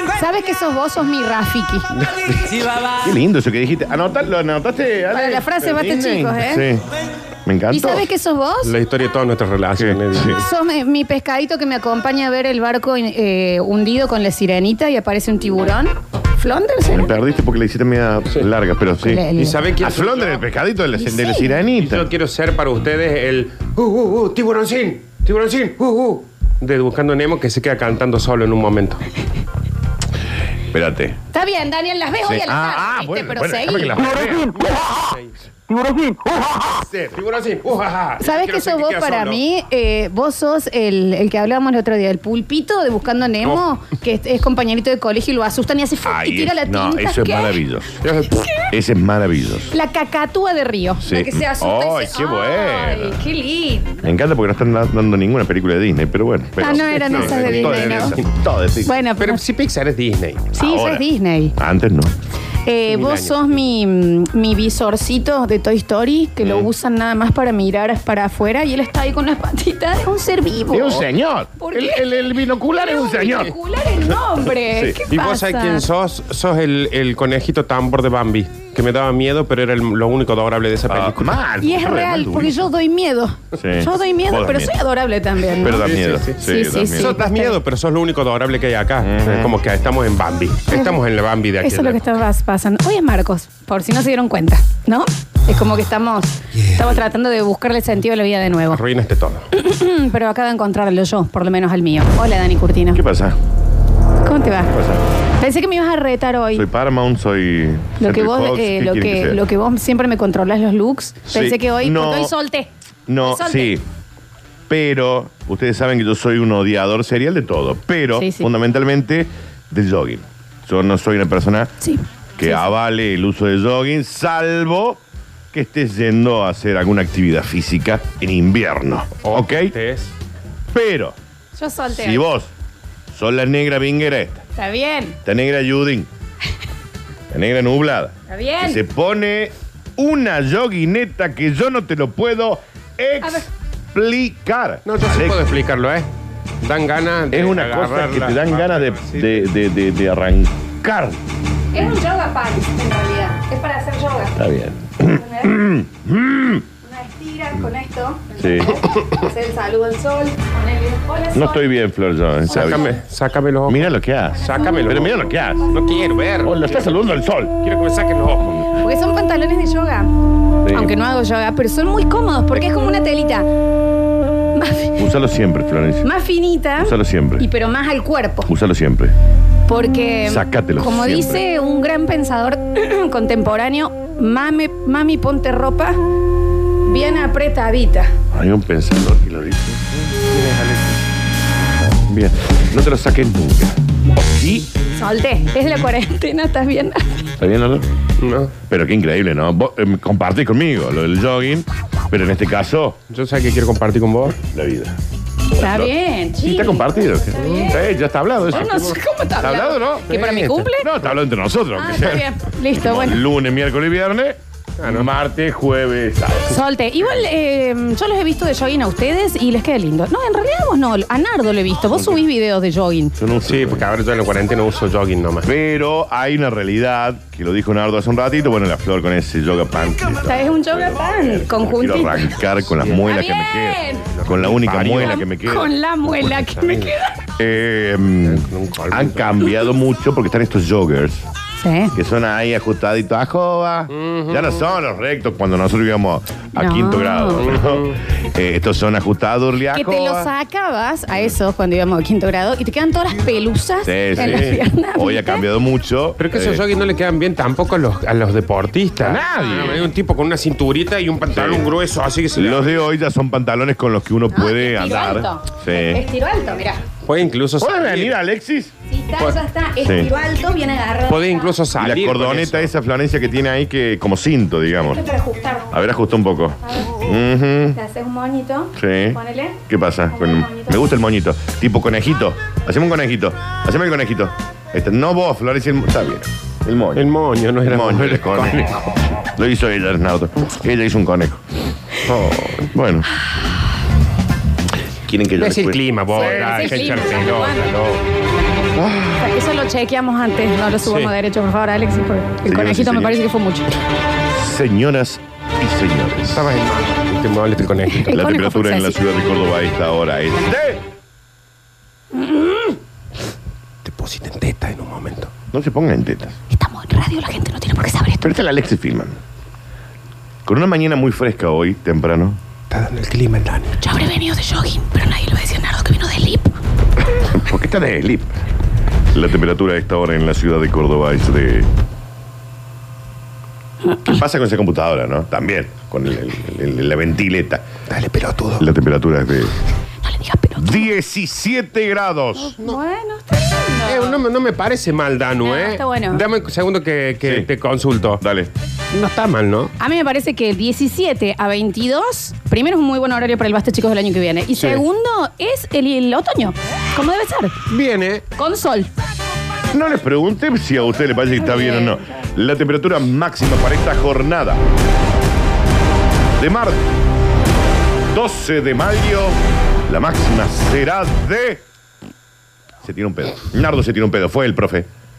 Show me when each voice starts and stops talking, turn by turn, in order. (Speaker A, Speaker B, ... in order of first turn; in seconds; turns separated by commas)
Speaker A: 0.1-1.9, Speaker B: 2.0-2.8, Speaker C: 2.8-6.8, Speaker A: 5.1-6.6, Speaker C: 7.5-8.1, Speaker A: 7.7-8.7, Speaker B: 8.6-10.4, Speaker C: 9.7-10.4, Speaker A: 10.3-17.1, Speaker C: 16.9-22.1, Speaker A: 19.0-19.6, Speaker B: 19.4-20.4, Speaker A: 21.0-21.6, Speaker B: 21.8-29.0, Speaker C: 30.7-31.2, Speaker A: 31.3-34.1, Speaker C: 32.2-34.6, Speaker B: 34.5-35.3, Speaker B: 36.9-39.4, Speaker A: 38.2-47.6, Speaker C: 46.0-48.0, Speaker B: 48.0-48.4, Speaker A: 48.4-48.6, Speaker C: 48.7-49.7, Speaker A: 49.7-54.0, Speaker C: 51.0-53.2, Speaker C: 54.0-59.0, Speaker A: 56.6-58.2, Speaker B: 56.9-58.3, Speaker A: 58.8-59.4, Speaker B: 59.2-60.5, Speaker A: 60.5-61.5, Speaker C: 60.6-61.0, Speaker C: 61.6-62.1, Speaker A: 62.6-75.8, Speaker B: 62.9-63.5, Speaker C: 66.4-66.7, Speaker C: 70.7-73.5, Speaker C: 74.7-75.0, Speaker B: 75.1-81.4, Speaker C: 80.9-82.6, Speaker A: 81.6-87.6, Speaker C: 83.6-84.8, Speaker C: 85.6-87.2, Speaker B: 85.6-86.4, Speaker B: 86.9-92.2, Speaker C: 89.0-89.5, Speaker A: 90.7-91.0, Speaker A: 91.6-98.8, Speaker B: 98.7-99.5, Speaker A: 99.5-103.0, Speaker C: 102.9-103.4, Speaker A: 104.2-104.7, Speaker C: 104.7-105.0, Speaker A: 105.4-106.7, Speaker C: 106.5-109.4, Speaker A: 108.0-112.7, Speaker C: 111.3-112.3, Speaker C: 113.1-113.8, Speaker A: 113.2-113.7, Speaker C: 114.7-121.7, Speaker A: 118.1-118.5, Speaker A: 121.8-122.7, Speaker C: 122.4-125.0, Speaker C: 125.5-129.7, Speaker B: 129.2-130.1, Speaker C: 130.7-131.2, Speaker A: 131.5-132.2, Speaker C: 131.9-132.5, Speaker C: 133.1-134.4, Speaker A: 134.6-135.2, Speaker C: 135.2-136.1, Speaker C: 137.3-145.5, Speaker A: 138.3-138.8, Speaker B: 144.8-146.1, Speaker B: 146.6-149.5, Speaker C: 147.3-151.2, Speaker A: 151.7-154.4, Speaker C: 154.3-156.6, Speaker A: 155.1-155.6, Speaker A: 156.8-161.7, Speaker C: 158.4-158.8, Speaker C: 161.3-162.9, Speaker B: 162.5-166.9, Speaker A: 162.5-162.9, Speaker C: 163.7-165.7, Speaker A: 164.4-165.0, Speaker C: 166.4-167.6, Speaker B: 167.6-168.7, Speaker A: 168.8-170.1, Speaker C: 170.6-170.9, Speaker A: 170.7-173.5, Speaker A: 174.5-175.1, Speaker C: 175.0-176.1, Speaker A: 176.0-178.5, Speaker C: 176.8-177.5, Speaker C: 178.5-179.1, Speaker A: 179.7-186.0, Speaker C: 180.2-181.4, Speaker A: 186.8-188.1, Speaker C: 188.3-190.9, Speaker B: 190.4-190.7, Speaker C: 191.8-194.7, Speaker A: 195.0-197.2, Speaker C: 197.4-197.8, Speaker B: 198.2-198.5, Speaker C: 198.6-203.0, Speaker B: 203.1-204.4, Speaker C: 204.4-205.0, Speaker A: 205.5-207.8, Speaker C: 205.6-210.2, Speaker B: 207.4-207.7, Speaker A: 208.5-210.9, Speaker B: 210.1-210.7, Speaker C: 210.8-216.6, Speaker A: 211.7-213.2, Speaker B: 214.8-215.1, Speaker A: 216.5-223.2, Speaker C: 223.2-223.9, Speaker B: 223.4-225.5, Speaker C: 225.4-235.7, Speaker A: 230.2-232.4, Speaker A: 232.9-234.1, Speaker B: 234.0-235.2, Speaker A: 235.0-237.2, Speaker B: 236.2-236.9, Speaker C: 237.4-241.2, Speaker B: 238.2-239.3, Speaker A: 241.6-241.9, Speaker C: 241.9-250.3, Speaker B: 243.9-244.5, Speaker A: 246.6-247.5, Speaker B: 247.4-248.0, Speaker A: 249.7-255.5, Speaker C: 253.8-256.6, Speaker B: 254.2-254.6, Speaker B: 256.2-262.8, Speaker C: 259.0-259.9, Speaker C: 261.3-261.7, Speaker C: 262.3-266.0, Speaker A: 264.3-266.8, Speaker B: 267.0-268.1, Speaker C: 267.6-268.7, Speaker A: 268.9-271.6, Speaker C: 269.8-270.1, Speaker B: 271.1-272.7, Speaker C: 271.7-275.0, Speaker A: 274.8-275.7, Speaker C: 275.7-277.8, Speaker A: 277.7-279.6, Speaker C: 278.8-287.1, Speaker A: 280.1-280.9, Speaker B: 286.9-288.8, Speaker C: 287.6-288.7, Speaker C: 289.2-291.4, Speaker B: 292.1-292.6, Speaker C: 292.4-293.1, Speaker C: 295.0-297.0, Speaker B: 295.4-298.0, Speaker A: 296.1-297.7, Speaker C: 298.7-299.3, Speaker A: 299.2-303.8, Speaker B: 300.8-301.1, Speaker C: 302.4-303.2, Speaker C: 304.3-306.5, Speaker B: 306.3-308.1, Speaker A: 307.9-309.0, Speaker C: 308.1-310.8, Speaker A: 312.1-312.8, Speaker B: 313.8-315.3, Speaker C: 315.5-316.4, Speaker A: 316.5-318.4, Speaker C: 318.2-319.2, Speaker C: 320.4-322.4, Speaker B: 322.7-323.8, Speaker A: 323.8-326.6, Speaker C: 327.2-328.3, Speaker C: 329.1-331.7, Speaker C: 334.0-337.6, Speaker B: 337.9-338.6, Speaker C: 338.6-339.6, Speaker A: 340.0-340.9, Speaker C: 340.6-342.5, Speaker A: 342.4-344.2, Speaker B: 343.9-348.2, Speaker A: 345.4-346.2, Speaker C: 347.2-347.5, Speaker C: 348.2-348.5, Speaker B: 348.9-349.7, Speaker A: 349.8-357.6, Speaker B: 354.6-354.8, Speaker B: 357.7-358.2, Speaker A: 358.3-358.9, Speaker C: 359.7-364.6, Speaker A: 361.4-362.0, Speaker C: 366.4-366.9, Speaker C: 368.1-371.6, Speaker C: 372.8-374.9